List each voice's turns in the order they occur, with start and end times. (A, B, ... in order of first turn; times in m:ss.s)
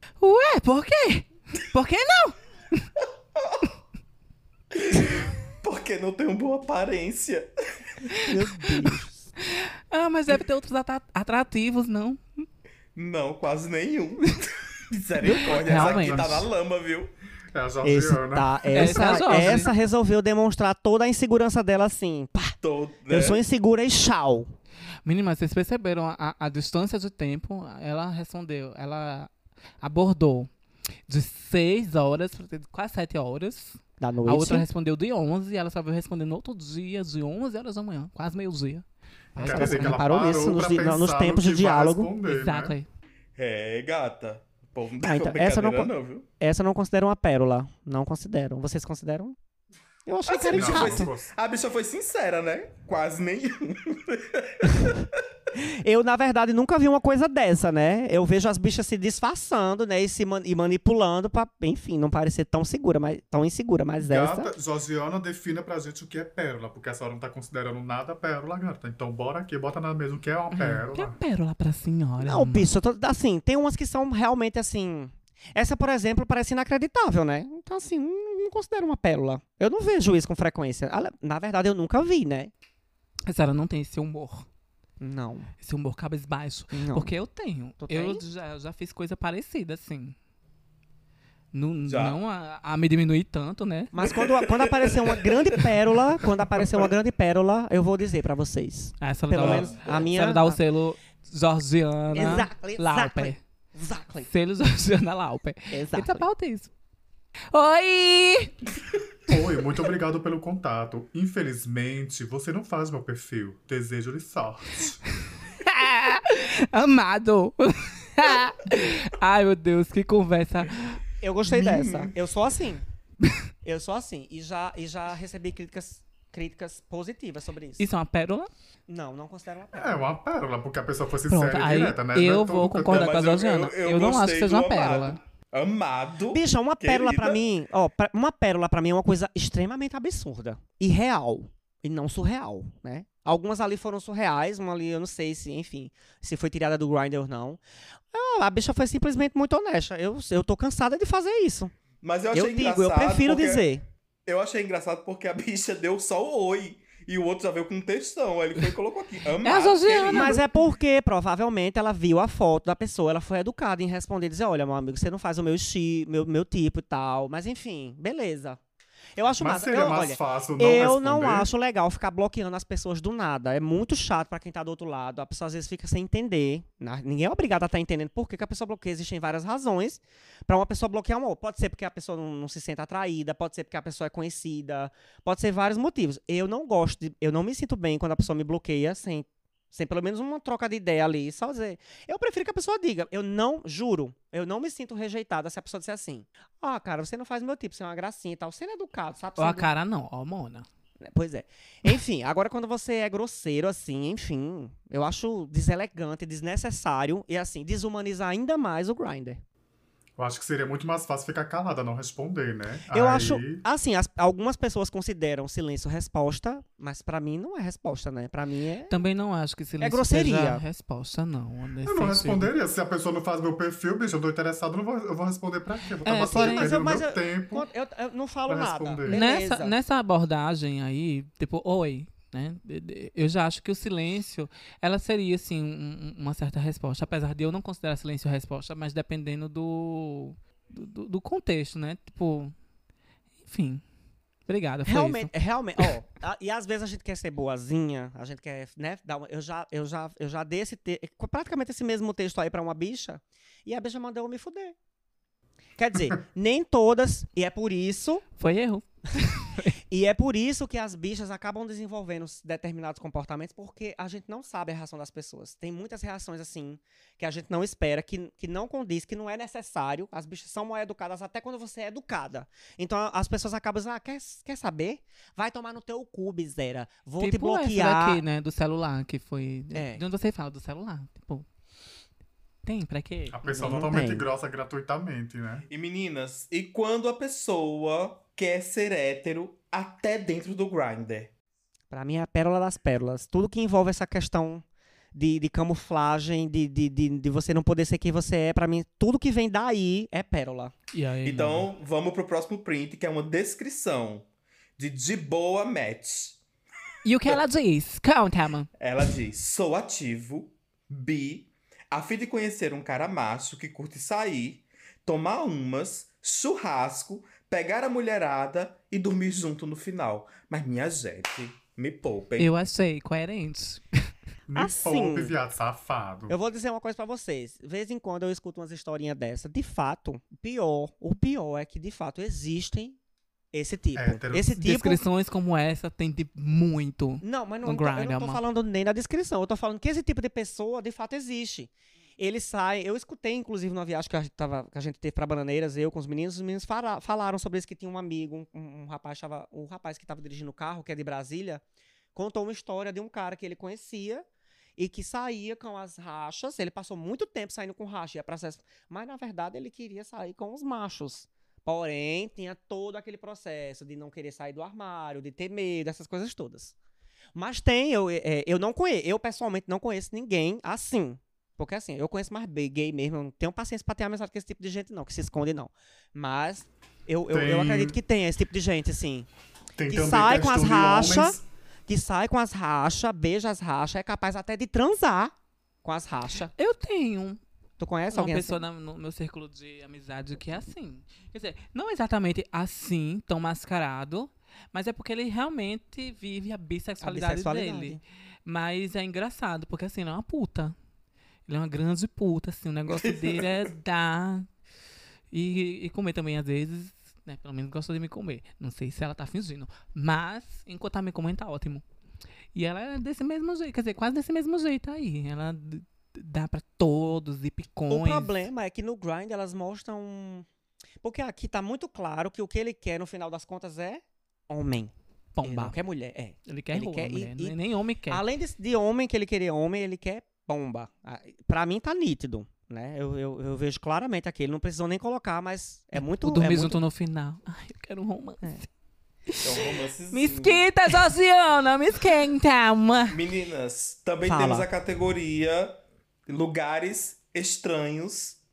0:00.2-0:02.9 A
0:03.4-0:03.6 B
0:04.7-0:07.5 B
0:08.2-0:09.3 C
0:09.4-0:12.4 A
0:12.9-0:17.1 B
0:15.2-0:16.5 A
0:15.7-0:16.2 D
0:17.5-0:19.5 D
0:17.8-0:22.5 C
0:18.7-0:19.7 A
0:22.6-0:23.4 B
0:23.1-0:24.5 C
0:25.0-0:30.5 A
0:31.1-0:40.0 A
0:34.0-0:34.6 C
0:39.4-0:42.7 D
0:39.4-0:42.1 C
0:42.2-0:42.9 A
0:43.4-0:46.2 B
0:45.0-0:49.4 C
0:50.0-0:51.1 C
0:50.3-0:55.1 B
0:50.5-0:51.3 D
0:55.5-1:04.5 C
1:04.0-1:11.2 D
1:10.5-1:12.7 A
1:12.2-1:22.5 C
1:23.2-1:24.5 A
1:25.0-1:25.5 C
1:25.6-1:30.2 A
1:26.7-1:27.1 C
1:27.8-1:28.2 C
1:31.5-1:33.9 A
1:31.9-1:32.2 B
1:33.9-1:40.6 C
1:34.0-1:35.7 B
1:39.0-1:43.4 A
1:39.4-1:40.0 B
1:42.1-1:44.3 C
1:44.2-1:46.7 A
1:45.7-1:46.3 C
1:47.5-1:48.5 A
1:49.3-1:55.0 D
1:55.4-2:01.0 A
2:01.2-2:02.8 C
2:01.4-2:02.1 B
2:03.6-2:07.8 C
2:07.8-2:08.5 A
2:08.9-2:10.0 C
2:09.7-2:13.1 D
2:11.3-2:15.2 A
2:12.9-2:17.4 B
2:16.3-2:31.7 C
2:32.0-2:33.7 B
2:32.3-2:33.8 C
2:34.2-2:40.5 B
2:39.4-2:40.4 A
2:40.1-2:48.6 C
2:49.2-3:19.7 C
2:49.4-2:51.5 D
3:19.4-3:20.6 A
3:21.0-3:29.4 C
3:30.2-3:33.6 D
3:32.9-3:39.0 C
3:38.9-3:42.5 A
3:39.8-3:40.6 C
3:41.8-3:47.7 D
3:46.0-3:46.8 A
3:46.1-3:49.7 C
3:48.5-3:49.2 D
3:49.1-4:02.5 A
4:03.4-4:03.8 A
4:04.5-4:05.9 A
4:04.8-4:14.7 C
4:15.8-4:18.2 C
4:18.4-4:19.7 A
4:19.9-4:38.2 C
4:37.2-4:41.4 A
4:39.7-4:40.0 C
4:42.6-4:43.4 A
4:43.3-4:45.6 D
4:43.5-4:44.2 C
4:45.7-4:51.3 B
4:51.9-4:54.6 C
4:55.1-5:00.7 C
5:00.9-5:01.7 A
5:01.2-5:04.2 B
5:04.8-5:06.4 B
5:07.0-5:08.7 A
5:08.8-5:22.5 B
5:22.4-5:23.8 A
5:24.5-5:26.3 D
5:24.5-5:25.3 C
5:26.3-5:33.0 C
5:33.5-5:35.0 C
5:33.9-5:34.5 D
5:34.6-5:38.4 A
5:37.2-5:51.6 C
5:52.1-5:54.2 C
5:54.8-6:06.7 C
6:07.3-6:19.3 C
6:17.3-6:18.0 D
6:19.8-6:21.4 D
6:19.9-6:26.5 C
6:26.6-6:27.4 A
6:27.8-6:28.6 C
6:28.1-6:40.7 A
6:37.0-6:38.0 C
6:41.5-6:44.5 A
6:42.9-6:43.5 B
6:45.3-6:51.8 A
6:52.5-6:58.3 A
6:57.9-7:00.4 C
7:01.0-7:07.6 C
7:05.3-7:05.8 A
7:06.5-7:08.2 A
7:08.1-7:16.8 C
7:16.0-7:18.6 A
7:19.3-7:23.2 A
7:19.4-7:20.6 B
7:23.1-7:28.4 B
7:24.2-7:24.7 C